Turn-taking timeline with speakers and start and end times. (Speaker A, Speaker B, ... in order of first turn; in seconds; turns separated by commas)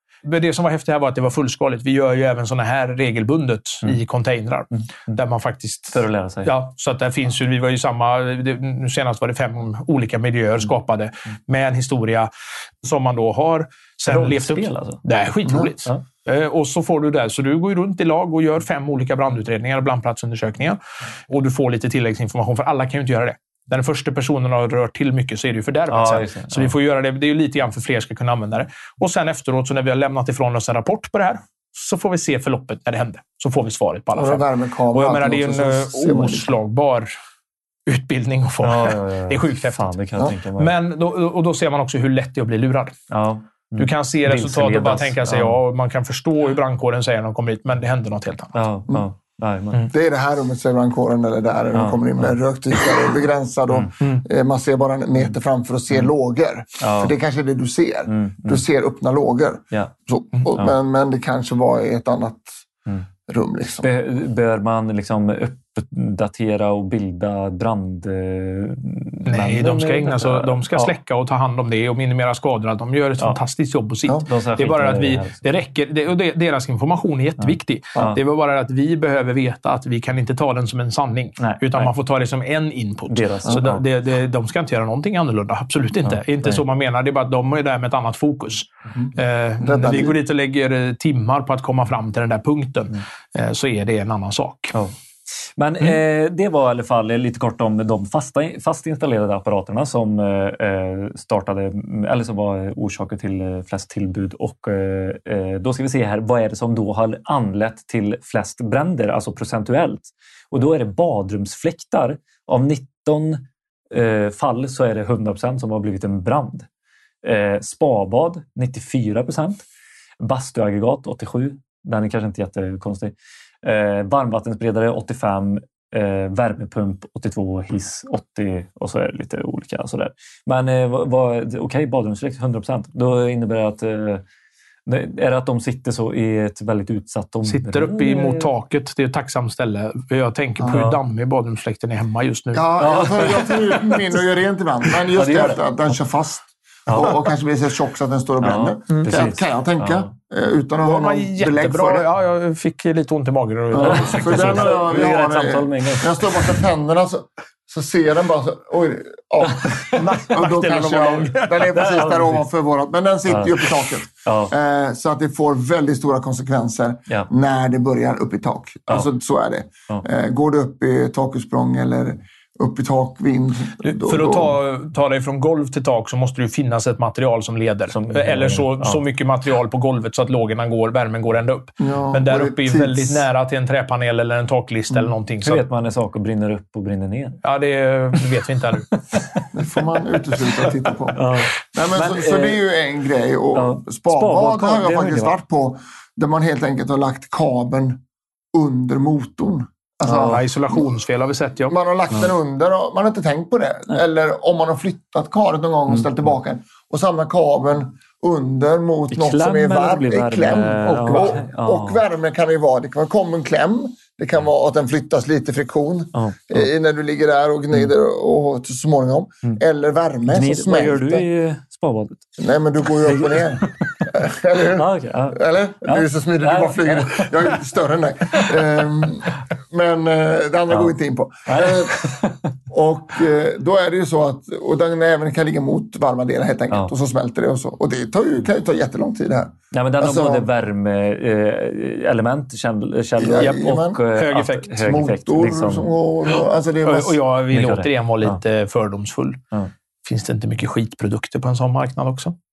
Speaker A: 0.2-12.3, Speaker B: 5.9-6.5, Speaker A: 12.8-37.1, Speaker B: 14.1-15.0, Speaker B: 25.9-26.7, Speaker C: 34.1-36.5, Speaker A: 37.9-39.9, Speaker B: 38.6-40.7, Speaker A: 40.5-43.0, Speaker B: 43.1-45.6, Speaker A: 43.8-48.6, Speaker B: 48.5-49.9, Speaker C: 49.9-62.5, Speaker B: 51.7-52.3, Speaker B: 56.8-57.1, Speaker B: 58.1-58.6, Speaker C: 63.3-63.9, Speaker B: 63.8-71.0, Speaker A: 69.3-94.7, Speaker B: 74.2-75.4, Speaker B: 77.4-78.2, Speaker B: 81.4-81.9, Speaker B: 83.1-83.8, Speaker B: 86.0-86.6, Speaker C: 89.6-90.2, Speaker B: 95.6-116.7, Speaker B: 117.2-119.6, Speaker B: 120.2-134.2, Speaker B: 134.9-138.5, Speaker A: 137.5-142.7, Speaker B: 140.7-141.0, Speaker C: 142.5-152.1, Speaker B: 142.8-144.0, Speaker B: 145.1-145.6, Speaker B: 146.9-147.2, Speaker B: 148.4-150.1, Speaker A: 150.8-154.9, Speaker C: 153.7-174.6, Speaker B: 153.8-156.6, Speaker B: 159.5-160.0, Speaker A: 160.0-161.7, Speaker B: 161.8-162.4, Speaker B: 163.3-163.7, Speaker B: 164.2-164.5, Speaker A: 173.8-185.6, Speaker B: 177.9-179.0, Speaker C: 181.8-183.3, Speaker B: 184.9-187.4, Speaker A: 187.4-188.9, Speaker B: 189.1-189.4, Speaker C: 189.5-200.8, Speaker B: 191.1-192.6, Speaker B: 193.5-195.4, Speaker B: 200.1-200.4, Speaker A: 200.2-201.8, Speaker C: 201.7-221.3, Speaker B: 209.1-212.0, Speaker A: 210.8-211.4, Speaker B: 216.1-216.7, Speaker B: 220.3-222.3, Speaker C: 222.4-232.1, Speaker B: 223.0-223.9, Speaker B: 224.7-227.5, Speaker B: 231.5-232.5, Speaker C: 232.7-240.5, Speaker B: 239.7-245.9, Speaker C: 243.2-244.0, Speaker A: 243.4-244.8, Speaker C: 244.8-247.2, Speaker A: 246.3-249.4, Speaker B: 247.5-248.4, Speaker A: 250.1-252.3